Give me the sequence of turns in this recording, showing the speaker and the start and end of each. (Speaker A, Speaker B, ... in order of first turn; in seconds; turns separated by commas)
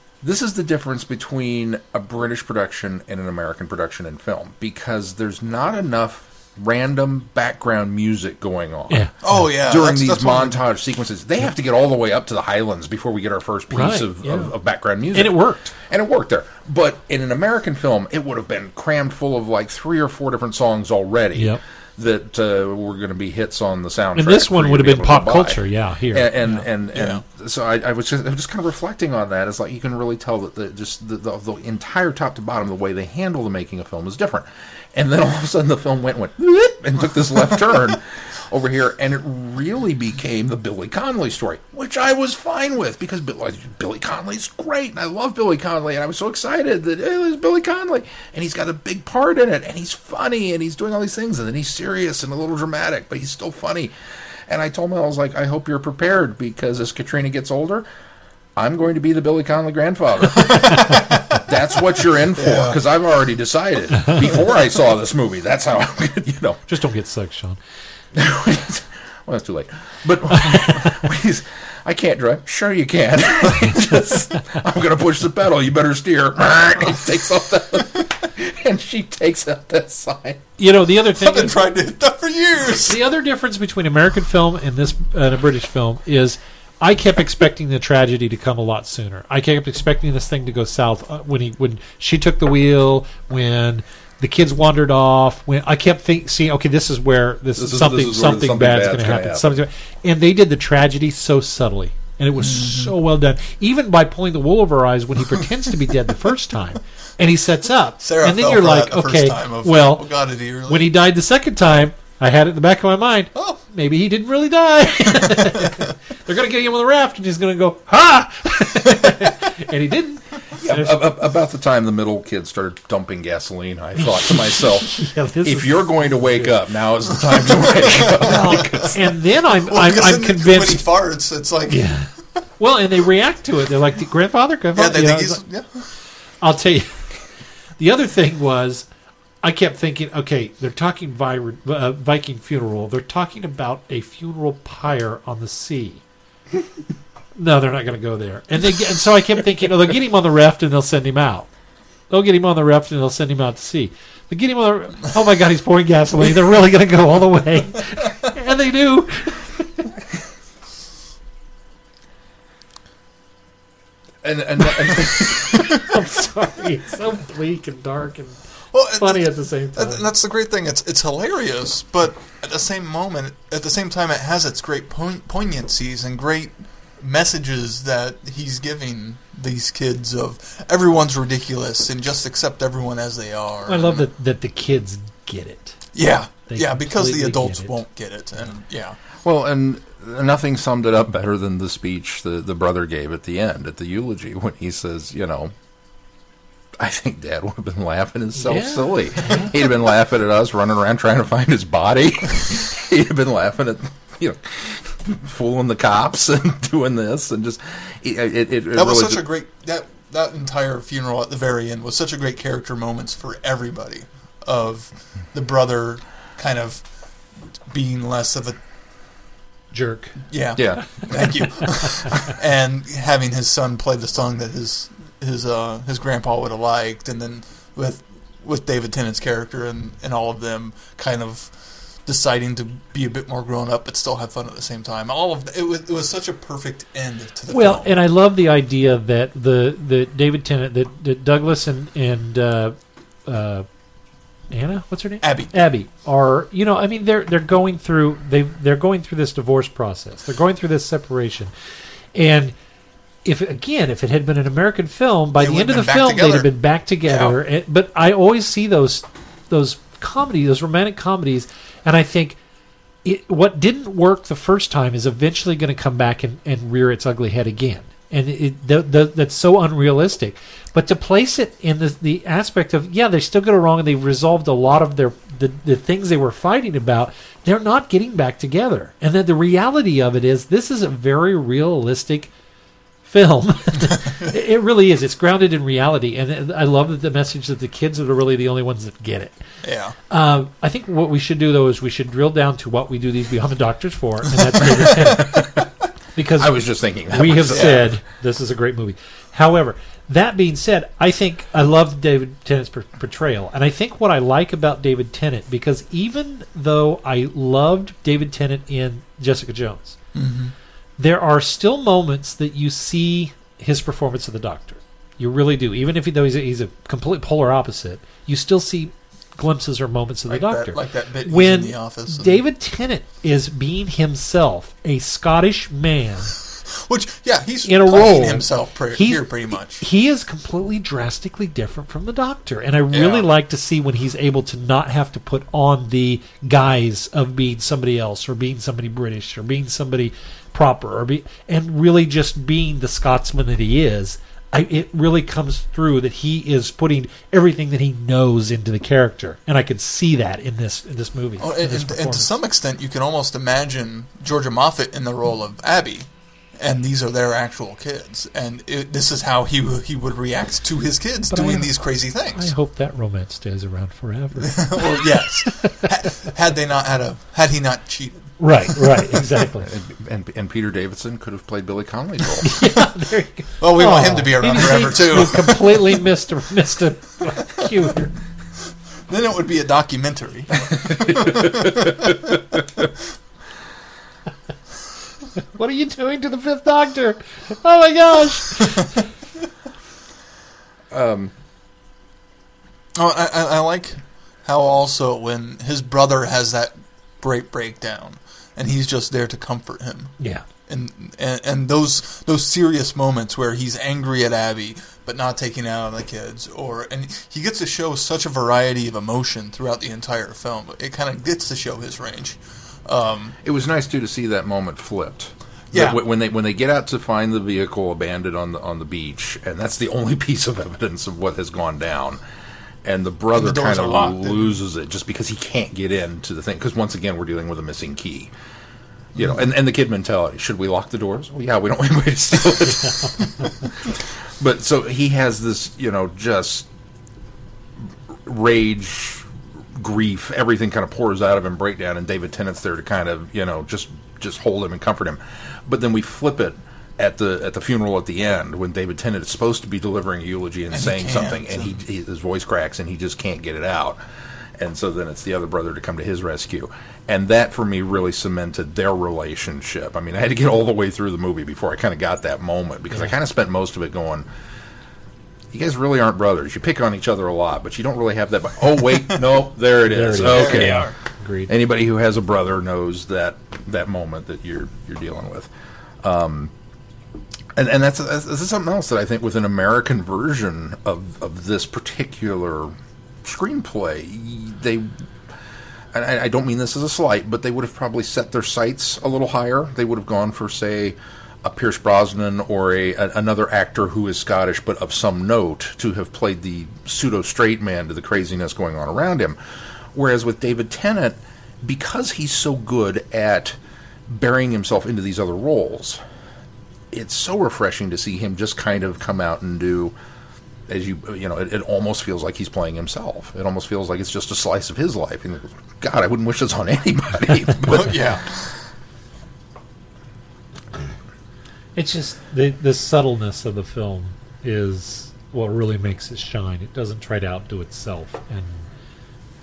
Speaker A: 0.2-9.1, Speaker B: 9.2-10.6, Speaker A: 9.6-53.9, Speaker C: 13.7-14.5, Speaker C: 15.1-15.7, Speaker C: 21.4-21.6, Speaker C: 24.2-26.6, Speaker B: 26.9-27.2, Speaker A: 54.5-57.9, Speaker A: 58.6-66.6, Speaker B: 60.4-61.4, Speaker B: 62.4-62.8, Speaker C: 66.7-67.6, Speaker A: 68.1-80.4, Speaker C: 80.6-81.7, Speaker B: 81.1-83.0, Speaker C: 82.9-110.1, Speaker A: 97.6-99.6, Speaker B: 102.4-102.9, Speaker B: 108.0-110.9, Speaker C: 110.7-121.0, Speaker B: 113.3-113.6, Speaker B: 115.4-115.8, Speaker A: 120.6-128.9, Speaker C: 124.6-126.5, Speaker B: 127.5-128.9, Speaker C: 128.2-130.8, Speaker B: 129.6-131.9, Speaker C: 131.7-135.4, Speaker B: 134.8-135.9, Speaker C: 136.4-137.2, Speaker C: 137.8-138.9, Speaker C: 139.4-146.0, Speaker C: 147.4-151.5, Speaker C: 152.1-159.5, Speaker A: 164.2-166.0, Speaker C: 165.8-168.4, Speaker B: 168.7-184.1, Speaker C: 169.0-170.0, Speaker C: 183.7-185.8, Speaker B: 185.9-189.0, Speaker C: 186.5-187.8, Speaker A: 189.2-195.5, Speaker A: 196.8-209.2, Speaker C: 198.4-199.5, Speaker B: 208.7-216.9, Speaker B: 217.7-218.6, Speaker C: 219.7-220.2, Speaker B: 220.3-237.9, Speaker A: 220.6-220.8, Speaker C: 237.5-243.7, Speaker C: 244.5-251.5, Speaker B: 245.2-245.6, Speaker C: 252.1-252.5, Speaker C: 253.2-262.4, Speaker B: 255.4-256.5, Speaker B: 257.1-257.4, Speaker C: 263.0-282.3, Speaker C: 283.1-289.4, Speaker B: 289.6-290.0, Speaker C: 290.1-295.5, Speaker C: 296.2-296.6, Speaker A: 296.4-297.8, Speaker C: 297.1-310.0, Speaker B: 297.5-297.9, Speaker B: 310.1-310.5, Speaker C: 311.0-326.4, Speaker B: 320.3-322.4, Speaker B: 326.7-329.8, Speaker C: 327.7-352.3, Speaker B: 332.9-333.3, Speaker B: 351.4-356.1, Speaker B: 356.6-362.5, Speaker C: 361.3-361.7, Speaker C: 362.3-364.9, Speaker B: 364.4-368.4, Speaker C: 365.4-365.9, Speaker C: 368.4-369.7, Speaker A: 369.6-372.6, Speaker C: 372.4-378.1, Speaker B: 373.6-375.9, Speaker B: 379.1-382.4, Speaker A: 380.9-382.6, Speaker C: 385.5-388.9, Speaker A: 390.9-391.3, Speaker B: 393.0-400.1, Speaker C: 400.2-400.4, Speaker B: 400.7-413.4, Speaker A: 413.4-422.2, Speaker B: 415.7-416.0, Speaker A: 422.8-428.3, Speaker B: 423.4-424.6, Speaker A: 429.1-436.7, Speaker A: 438.2-454.0, Speaker B: 450.7-451.8, Speaker A: 454.6-464.3, Speaker A: 465.5-470.9, Speaker C: 469.9-471.5, Speaker B: 470.2-470.9, Speaker A: 471.5-475.5, Speaker A: 476.0-476.5, Speaker A: 477.6-485.0, Speaker A: 485.9-499.4, Speaker A: 499.9-506.0, Speaker A: 506.9-509.9, Speaker A: 510.7-518.2, Speaker B: 517.6-518.5, Speaker C: 521.8-528.7